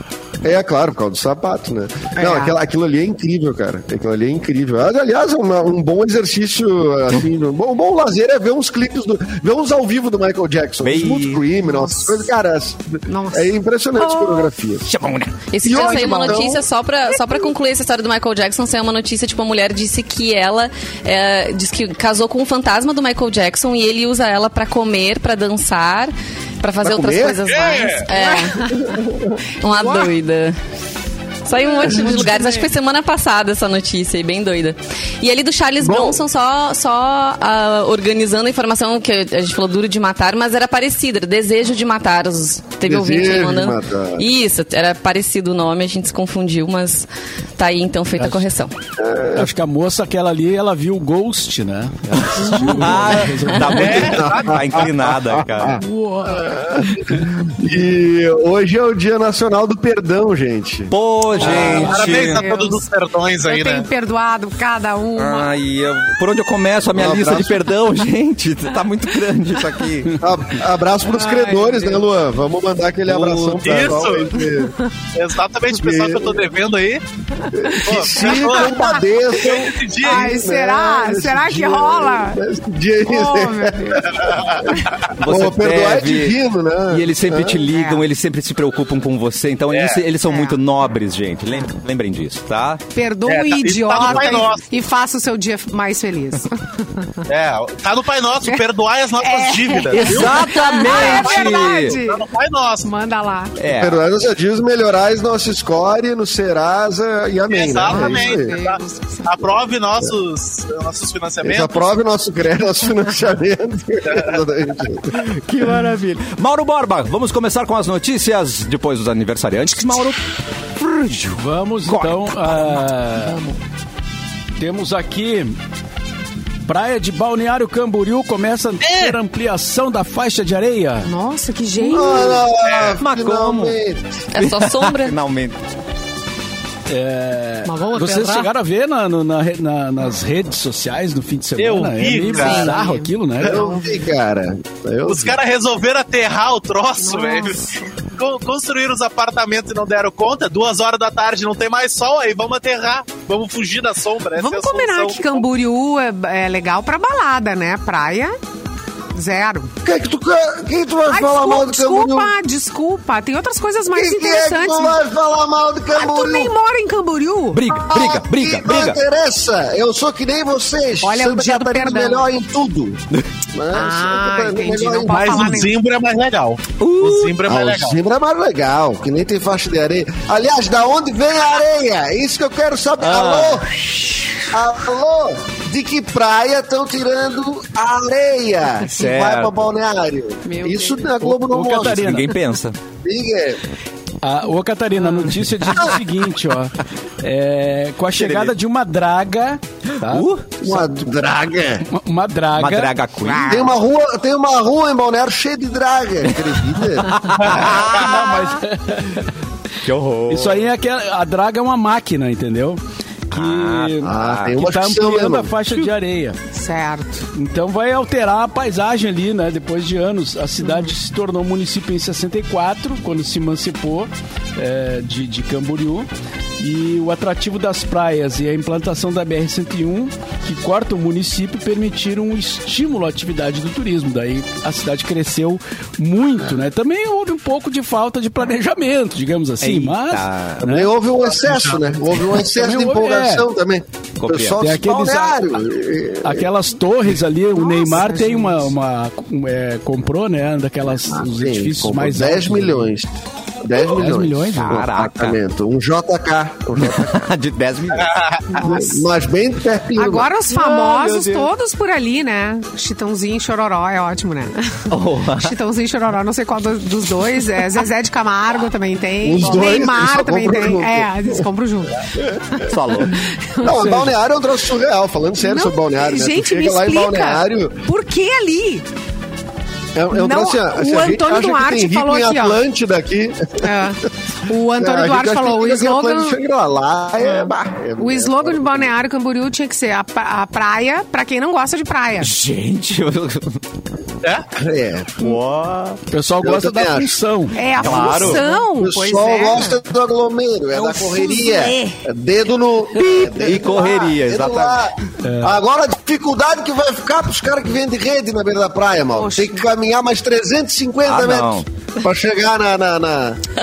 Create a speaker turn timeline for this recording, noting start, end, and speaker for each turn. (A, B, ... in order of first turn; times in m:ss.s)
0:00.4-0:14.9 A
0:02.2-0:02.6 B
0:10.8-0:11.4 C
0:11.6-0:12.2 B
0:13.1-0:14.4 B
0:14.8-0:15.4 C
0:15.5-0:28.7 D
0:15.6-0:16.6 A
0:15.9-0:16.4 B
0:26.8-0:27.4 A
0:27.4-0:28.1 E
0:28.1-0:29.0 B
0:28.8-0:29.4 A
0:29.6-0:30.6 D
0:29.7-0:30.1 B
0:31.4-0:47.1 D
0:31.5-0:32.7 B
0:35.8-0:36.2 A
0:42.8-0:44.2 A
0:47.6-0:48.7 D
0:48.2-0:48.5 F
0:49.0-0:49.5 A
0:49.3-0:54.1 F
0:52.1-0:55.8 C
0:53.7-0:54.7 E
0:54.1-1:00.9 A
0:55.8-0:56.8 F
1:00.9-1:02.4 C
1:01.4-1:02.8 B
1:01.4-1:03.9 E
1:01.4-1:01.8 A
1:03.4-1:05.5 B
1:05.2-1:10.2 C
1:06.9-1:07.7 A
1:10.2-1:14.8 A
1:11.1-1:12.0 B
1:13.1-1:14.0 C
1:13.6-1:14.4 E
1:15.2-1:17.0 E
1:15.8-1:16.5 A
1:17.5-1:27.6 A
1:17.8-1:18.8 E
1:18.0-1:19.0 B
1:19.4-1:20.4 E
1:20.0-1:22.4 B
1:23.0-1:24.1 B
1:24.2-1:24.7 E
1:25.2-1:26.4 C
1:26.9-1:32.8 C
1:27.7-1:28.0 B
1:29.7-1:30.0 E
1:30.2-1:30.6 B
1:32.9-1:37.2 B
1:33.2-1:34.6 E
1:37.3-1:42.9 E
1:39.2-1:42.3 B
1:39.9-1:42.0 C
1:42.8-1:43.6 B
1:43.6-1:44.0 C
1:43.7-1:48.6 A
1:47.5-1:51.9 E
1:47.8-1:49.4 B
1:51.4-1:55.2 A
1:54.1-1:54.4 E
1:55.1-2:00.3 C
2:00.8-2:03.6 C
2:01.3-2:03.4 F
2:04.6-2:05.6 F
2:06.6-2:11.1 F
2:08.8-2:09.2 E
2:11.0-2:12.5 B
2:11.8-2:14.2 A
2:12.6-2:13.0 E
2:13.0-2:13.8 C
2:14.3-2:15.2 D
2:14.3-2:15.6 C
2:16.9-2:23.6 F
2:17.7-2:18.5 B
2:21.6-2:22.7 E
2:22.2-2:24.1 B
2:23.4-2:25.4 A
2:25.0-2:35.4 E
2:27.0-2:27.9 B
2:34.4-2:38.4 B
2:39.1-2:39.7 B
2:39.8-2:42.3 A
2:41.1-2:45.0 B
2:43.9-2:46.5 A
2:45.9-2:47.6 B
2:47.5-2:49.0 C
2:47.9-2:53.0 A
2:51.0-2:52.3 B
2:53.5-2:55.6 A
2:53.7-2:55.8 B
2:55.1-2:58.0 E
2:56.8-2:57.4 C
2:57.4-3:03.7 A
3:03.0-3:04.5 C
3:04.5-3:12.2 A
3:08.8-3:09.5 C
3:10.5-3:11.1 B
3:11.2-3:12.4 F
3:11.8-3:12.8 C
3:13.0-3:13.6 A
3:14.2-3:20.8 F
3:18.2-3:18.5 C
3:20.0-3:20.5 C
3:20.6-3:21.9 A
3:21.9-3:22.9 F
3:22.6-3:23.7 C
3:23.2-3:23.6 B
3:23.4-3:27.2 A
3:26.7-3:28.6 C
3:27.4-3:27.9 E
3:27.9-3:29.3 F
3:27.9-3:28.6 B
3:29.8-3:30.7 C
3:30.3-3:32.8 F
3:33.3-3:34.6 C
3:33.3-3:36.4 F
3:34.0-3:35.5 A
3:36.5-3:37.3 B
3:37.3-3:46.1 F
3:40.6-3:40.9 B
3:46.6-4:00.9 F
3:59.6-4:00.6 C
4:00.6-4:06.5 A
4:01.4-4:02.0 E
4:02.4-4:03.5 F
4:04.2-4:04.7 C
4:04.6-4:05.4 F
4:06.2-4:12.9 F
4:07.6-4:08.7 B
4:11.0-4:13.1 A
4:13.6-4:17.2 A
4:13.9-4:14.8 F
4:14.5-4:15.4 C
4:16.8-4:18.2 C
4:18.0-4:18.5 E
4:18.5-4:19.1 B
4:18.6-4:20.3 A
4:20.0-4:33.9 B
4:20.5-4:21.5 C
4:24.9-4:25.6 C
4:29.2-4:31.5 A
4:32.2-4:32.6 A
4:32.7-4:33.2 C
4:33.6-4:37.9 A
4:35.4-4:38.8 B
4:40.0-4:43.9 A
4:40.1-4:42.6 B
4:43.6-4:46.4 B
4:44.8-4:49.0 A
4:47.2-4:52.3 B
4:52.2-4:53.6 C
4:54.6-4:55.3 A
4:55.2-4:56.0 C
4:56.1-4:58.4 F
4:56.4-4:57.2 A
4:57.5-4:59.8 B
4:57.7-4:58.5 C
4:58.7-5:13.4 A
5:00.8-5:01.9 B
5:03.0-5:04.9 C
5:05.2-5:05.6 F
5:09.2-5:09.7 B
5:11.0-5:11.7 C